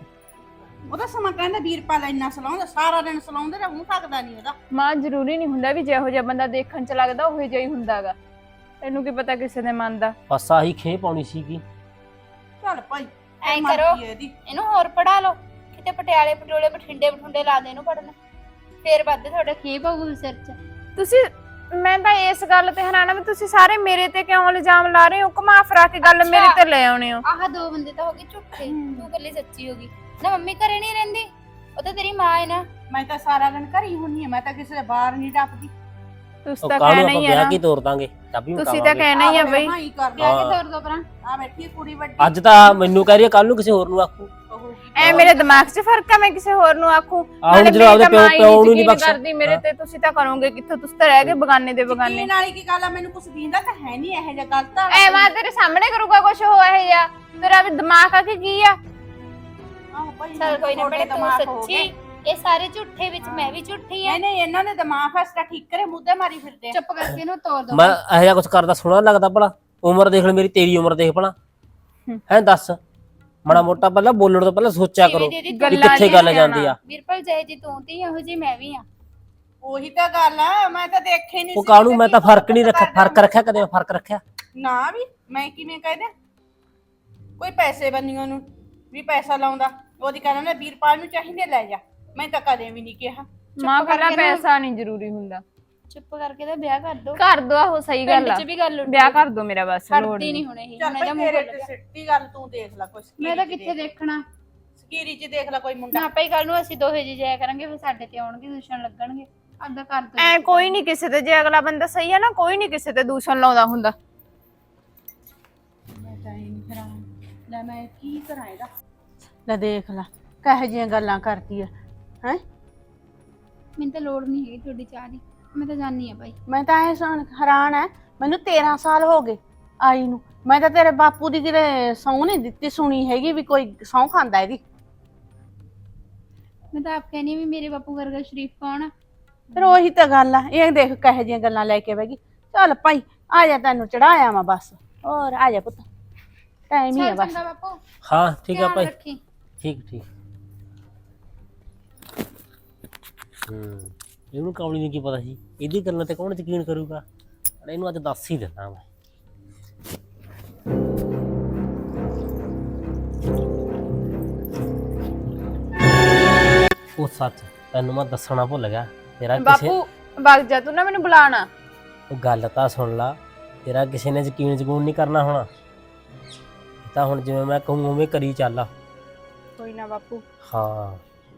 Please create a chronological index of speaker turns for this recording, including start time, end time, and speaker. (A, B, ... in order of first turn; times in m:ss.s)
0:00.9-0:04.6 A
0:04.7-0:08.2 B
0:08.8-0:10.2 B
0:10.3-0:11.6 C
0:12.6-0:14.3 A
0:13.4-0:18.1 D
0:18.8-0:20.6 D
0:21.0-0:27.2 B
0:26.0-0:26.6 D
0:27.2-0:32.7 D
0:28.7-0:29.1 A
0:32.9-0:35.7 A
0:36.4-0:37.6 B
0:36.6-0:39.1 C
0:38.6-0:39.7 B
0:39.1-0:40.3 A
0:40.2-0:40.6 C
0:40.2-0:41.1 D
0:41.2-0:42.3 A
0:42.2-0:44.3 C
0:44.5-0:45.4 A
0:44.9-0:52.3 B
0:45.0-0:45.3 C
0:45.2-0:45.7 D
0:47.4-0:49.6 C
0:51.9-0:55.3 A
0:54.9-0:58.8 B
0:59.9-1:01.9 A
1:00.4-1:04.2 D
1:03.2-1:06.8 A
1:06.7-1:08.0 D
1:07.7-1:11.3 C
1:12.3-1:12.8 C
1:13.4-1:16.8 C
1:15.0-1:18.9 D
1:15.5-1:16.7 B
1:19.6-1:23.2 A
1:21.6-1:24.2 C
1:24.6-1:26.1 A
1:27.4-1:34.4 A
1:33.6-1:35.4 B
1:35.9-1:37.2 D
1:37.2-1:40.4 B
1:38.1-1:39.2 D
1:39.9-1:41.7 D
1:40.8-1:43.8 A
1:43.2-1:44.2 D
1:44.8-1:46.1 A
1:45.9-1:50.8 D
1:50.2-1:53.9 B
1:55.9-1:58.7 A
1:59.5-2:01.7 A
2:03.8-2:06.4 D
2:06.5-2:14.6 A
2:16.7-2:18.9 D
2:19.6-2:25.9 A
2:26.7-2:27.4 A
2:26.9-2:27.8 D
2:28.0-2:28.9 C
2:28.5-2:29.2 D
2:29.6-2:30.1 C
2:33.4-2:37.0 C
2:37.6-2:38.8 C
2:47.0-2:49.7 C
2:49.4-2:51.5 B
2:52.1-2:55.5 C
2:56.8-2:58.7 C
2:59.6-3:00.2 B
3:00.4-3:01.0 C